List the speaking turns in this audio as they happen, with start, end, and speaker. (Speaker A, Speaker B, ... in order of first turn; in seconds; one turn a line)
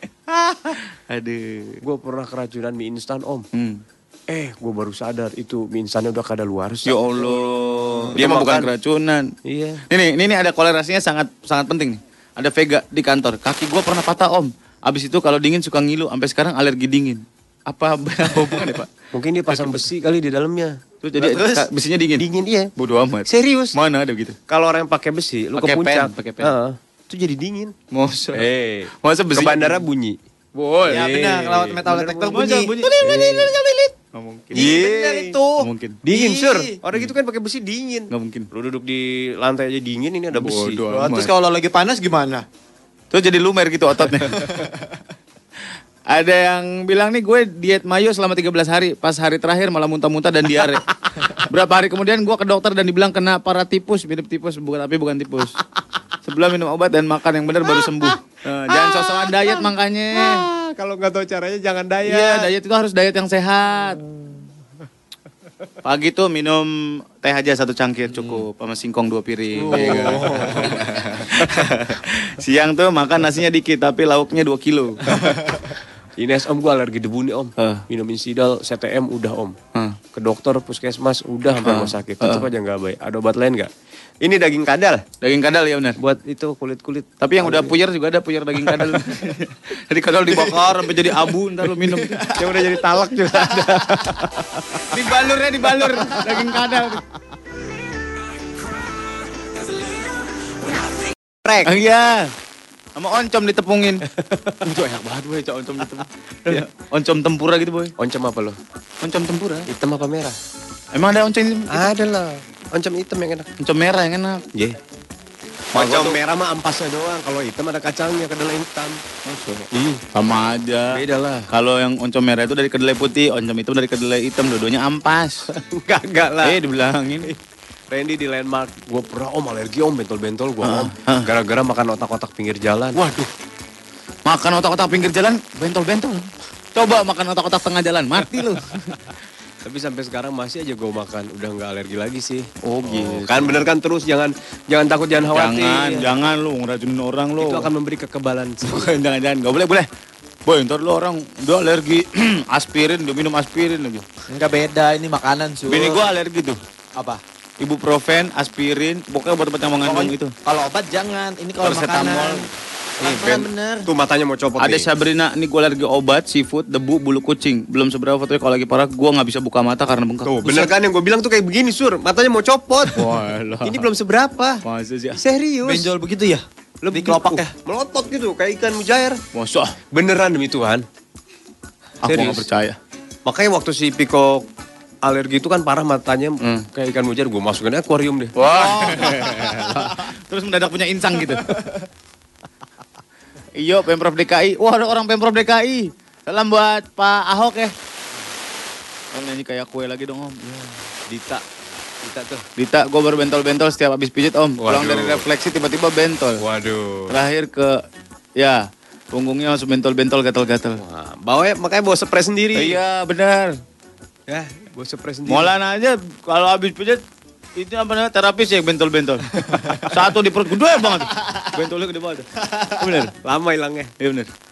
Speaker A: 0.6-1.8
Speaker B: 1.8-3.5
Speaker A: 3.5-3.8
Speaker B: 4.3-7.5
Speaker A: 6.9-9.3
Speaker B: 8.1-8.7
Speaker B: 9.5-9.8
Speaker A: 9.9-18.9
Speaker B: 19.1-21.6
Speaker A: 19.5-19.8
Speaker A: 21.0-24.4
Speaker B: 22.2-22.7
Speaker B: 23.3-23.8
Speaker B: 24.5-27.8
Speaker A: 25.6-26.6
Speaker A: 27.9-28.5
Speaker B: 28.3-30.2
Speaker A: 29.0-29.8
Speaker A: 30.6-31.3
Speaker C: 30.9-33.0
Speaker B: 30.9-33.5
Speaker A: 32.3-34.9
Speaker B: 34.5-35.4
Speaker C: 34.6-35.6
Speaker A: 35.6-36.0
Speaker B: 36.0-40.8
Speaker A: 38.1-38.5
Speaker A: 40.3-41.3
Speaker C: 40.9-42.5
Speaker A: 43.1-44.7
Speaker A: 46.1-50.8
Speaker A: 51.4-55.5
Speaker A: 56.2-60.4
Speaker B: 58.7-59.5
Speaker B: 60.1-62.5
Speaker A: 62.1-64.0
Speaker A: 65.8-75.1
Speaker B: 69.6-70.8
Speaker B: 76.2-79.6
Speaker A: 77.6-77.8
Speaker B: 80.1-83.7
Speaker A: 81.6-82.5
Speaker B: 84.2-85.0
Speaker A: 85.2-86.0
Speaker B: 86.0-87.7
Speaker A: 87.2-92.7
Speaker B: 92.3-94.9
Speaker A: 94.9-97.0
Speaker B: 101.4-101.7
Speaker A: 101.7-102.3
Speaker A: 103.0-104.1
Speaker A: 104.6-107.9
Speaker B: 108.0-108.6
Speaker A: 109.0-109.7
Speaker B: 109.7-110.4
Speaker A: 110.9-111.9
Speaker B: 111.7-113.5
Speaker A: 113.6-114.4
Speaker A: 115.7-116.2
Speaker B: 115.8-119.0
Speaker A: 119.3-125.5
Speaker B: 119.7-120.0
Speaker B: 120.9-121.5
Speaker B: 125.7-126.6
Speaker A: 126.4-127.3
Speaker B: 127.9-133.0
Speaker A: 130.6-131.3
Speaker A: 132.9-133.3
Speaker A: 134.3-139.0
Speaker B: 139.6-146.1
Speaker A: 142.6-143.7
Speaker A: 145.3-147.7
Speaker B: 147.4-148.9
Speaker A: 148.6-149.9
Speaker A: 150.5-154.1
Speaker C: 154.3-156.0
Speaker A: 155.7-156.6
Speaker A: 157.6-160.3
Speaker C: 159.8-162.5
Speaker A: 161.6-162.5
Speaker C: 163.0-163.8
Speaker B: 163.0-164.9
Speaker A: 164.6-170.7
Speaker B: 170.3-173.1
Speaker A: 172.9-173.9
Speaker B: 173.6-174.6
Speaker A: 174.6-175.2
Speaker B: 175.2-175.9
Speaker C: 175.7-176.4
Speaker B: 176.8-179.2
Speaker A: 176.9-177.5
Speaker A: 179.3-179.7
Speaker B: 179.9-180.8
Speaker B: 182.0-182.4
Speaker A: 182.1-182.8
Speaker B: 183.2-184.5
Speaker B: 185.0-188.4
Speaker A: 188.4-191.5
Speaker A: 193.6-197.7
Speaker A: 199.1-200.7
Speaker B: 201.1-201.4
Speaker B: 202.0-202.4
Speaker A: 202.6-206.4
Speaker B: 204.6-205.2
Speaker B: 206.4-207.1
Speaker A: 207.1-207.8
Speaker A: 208.4-210.8
Speaker B: 210.8-212.8
Speaker A: 212.5-213.6
Speaker B: 214.3-215.5
Speaker A: 215.3-217.0
Speaker A: 217.6-219.3
Speaker A: 219.8-223.1
Speaker B: 223.2-223.9
Speaker A: 224.0-224.3